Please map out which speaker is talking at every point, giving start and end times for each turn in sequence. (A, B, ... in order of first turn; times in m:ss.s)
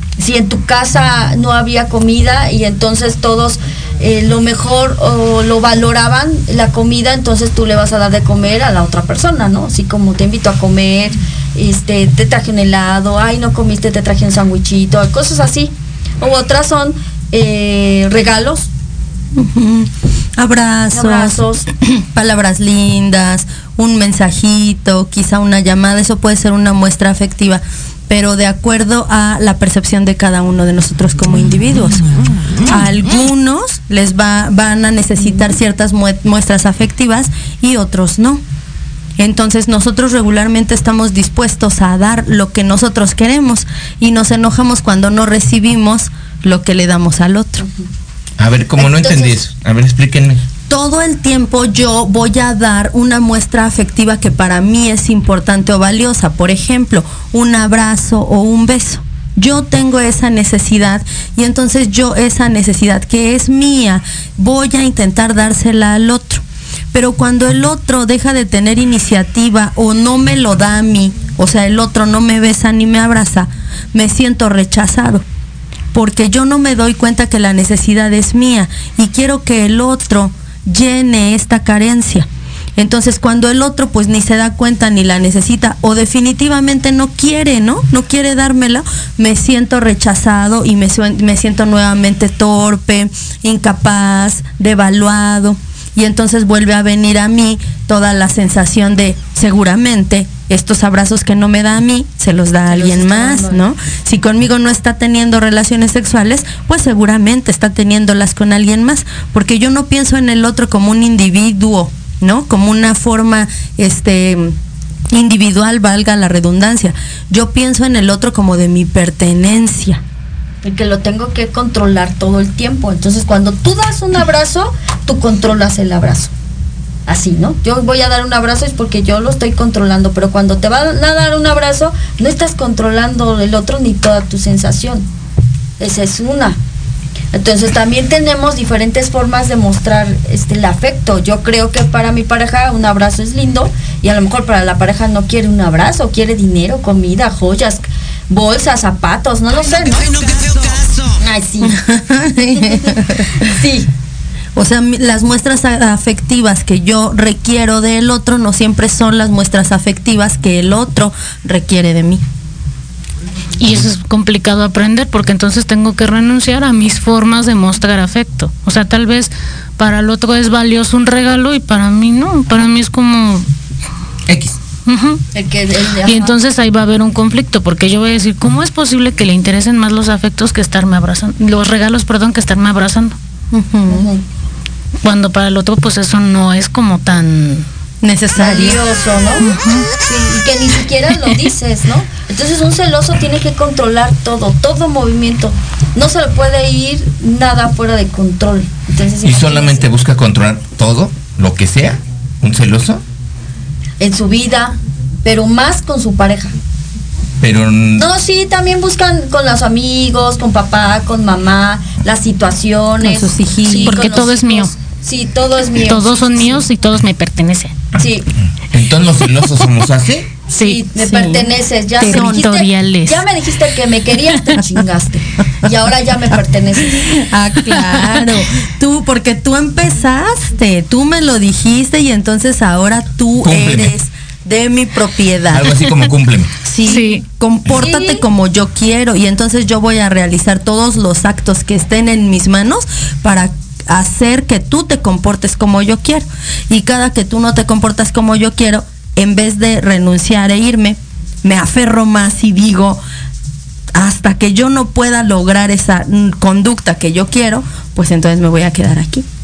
0:00.2-0:18.7 A
0:19.3-0:38.4 B
0:20.9-0:21.7 A
0:39.2-0:47.6 B
0:48.4-0:50.4 C
0:48.8-0:49.3 A
0:50.7-1:15.2 B
1:15.9-1:54.5 B
1:42.7-1:43.6 A
1:55.1-2:00.0 B
2:00.6-2:06.3 A
2:07.1-2:15.1 A
2:15.8-2:16.6 A
2:17.3-2:30.2 A
2:31.2-2:31.8 A
2:31.6-2:33.4 B
2:33.4-2:33.9 A
2:34.6-2:42.2 B
2:43.6-2:53.5 D
2:54.3-2:54.6 C
2:54.9-2:55.2 D
2:55.3-2:56.3 A
2:56.0-3:03.2 D
3:03.5-3:04.1 B
3:03.9-3:04.2 A
3:05.0-3:07.7 D
3:08.0-3:08.8 B
3:08.4-3:19.9 A
3:19.2-3:23.0 C
3:24.0-3:26.5 A
3:27.4-3:28.0 C
3:28.0-3:36.6 A
3:33.0-3:34.1 B
3:33.8-3:34.7 D
3:35.8-3:37.7 D
3:38.0-3:38.3 A
3:38.7-3:40.3 C
3:40.5-3:40.8 D
3:40.6-3:47.2 A
3:41.0-3:42.5 B
3:42.0-3:43.2 D
3:47.0-3:55.8 B
3:53.4-3:53.9 C
3:55.5-3:56.6 C
3:56.6-4:13.0 B
3:56.8-3:57.2 D
3:57.7-3:58.2 A
4:13.9-4:19.2 B